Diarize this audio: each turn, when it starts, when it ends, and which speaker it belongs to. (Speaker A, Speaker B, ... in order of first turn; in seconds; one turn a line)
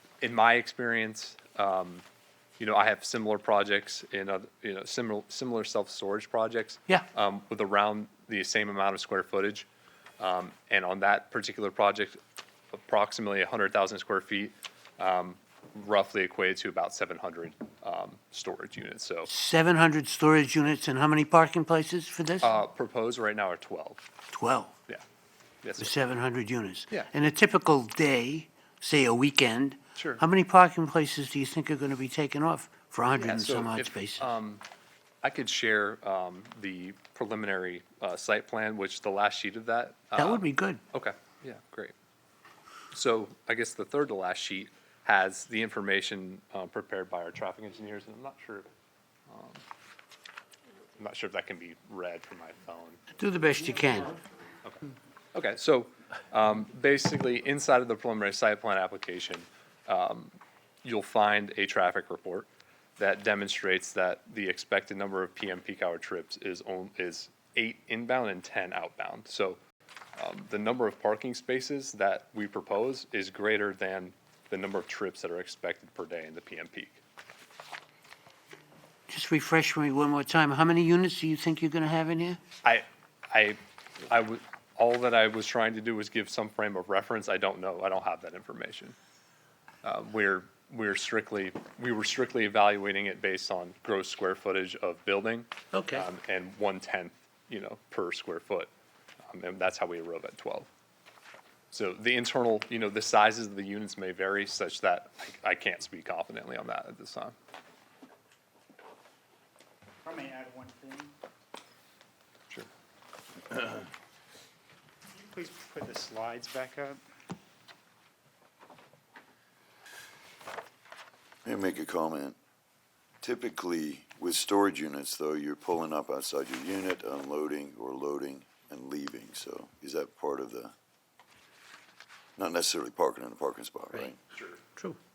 Speaker A: 0.2-2.0
Speaker A: 2.6-9.7
Speaker A: 10.2-12.2
Speaker A: 12.7-19.3
Speaker B: 19.3-22.6
Speaker A: 22.4-24.0
Speaker B: 24.3-24.7
Speaker A: 25.6-25.9
Speaker B: 25.8-34.2
Speaker A: 29.9-30.2
Speaker A: 33.2-34.6
Speaker A: 35.2-41.9
Speaker B: 40.1-40.8
Speaker A: 42.9-48.7
Speaker A: 49.3-49.6
Speaker A: 51.0-53.0
Speaker B: 53.1-54.2
Speaker A: 55.3-69.6
Speaker A: 70.2-77.0
Speaker B: 79.1-82.4
Speaker A: 82.6-89.0
Speaker A: 89.8-98.7
Speaker B: 95.7-96.1
Speaker A: 99.3-100.7
Speaker A: 101.7-107.3
Speaker C: 110.0-111.1
Speaker C: 115.1-117.0
Speaker D: 121.4-122.4
Speaker D: 123.2-130.7
Speaker D: 132.4-134.2